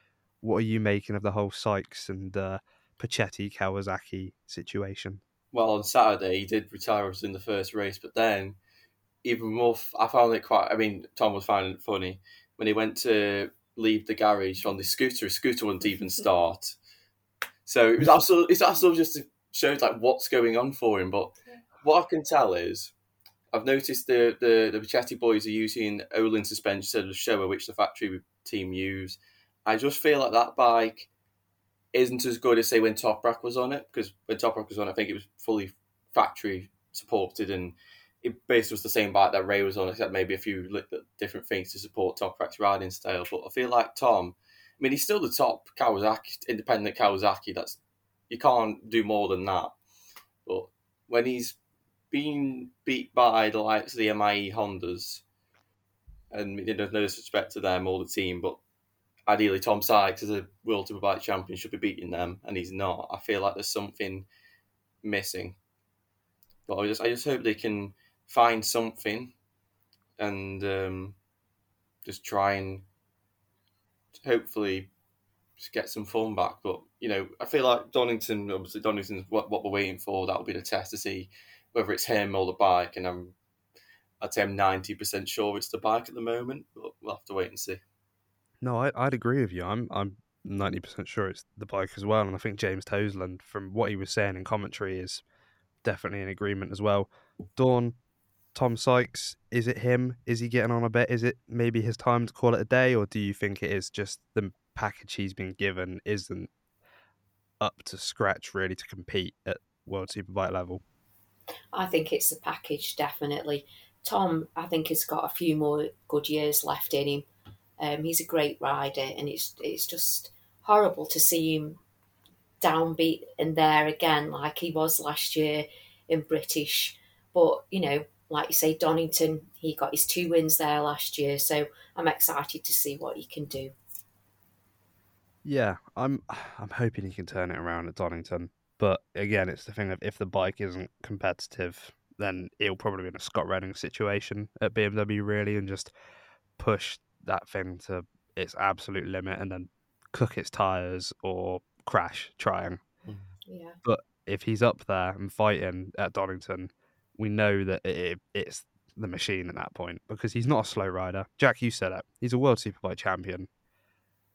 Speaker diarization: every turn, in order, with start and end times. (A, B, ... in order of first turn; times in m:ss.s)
0:00.4-0:05.2 A
0:05.5-0:08.6 B
0:09.2-0:16.8 B
0:17.6-0:22.9 B
0:23.5-0:31.1 B
0:31.9-0:47.8 B
0:48.3-0:49.8 B
0:50.4-0:51.6 B
0:52.1-0:55.2 B
0:56.3-0:58.6 B
0:59.3-1:04.3 B
1:05.0-1:05.6 B
1:06.7-1:09.3 B
1:10.2-1:11.2 B
1:12.0-1:12.8 B
1:14.2-1:14.9 B
1:15.6-1:23.3 B
1:24.2-1:27.8 B
1:28.6-1:35.2 A
1:35.8-1:38.0 A
1:38.5-1:46.5 A
1:47.6-1:50.8 A
1:51.7-1:57.2 C
1:57.8-2:01.8 C
2:02.6-2:13.7 C
2:15.4-2:25.9 A
2:26.6-2:32.8 A
2:33.5-2:33.8 C
2:33.8-2:43.5 A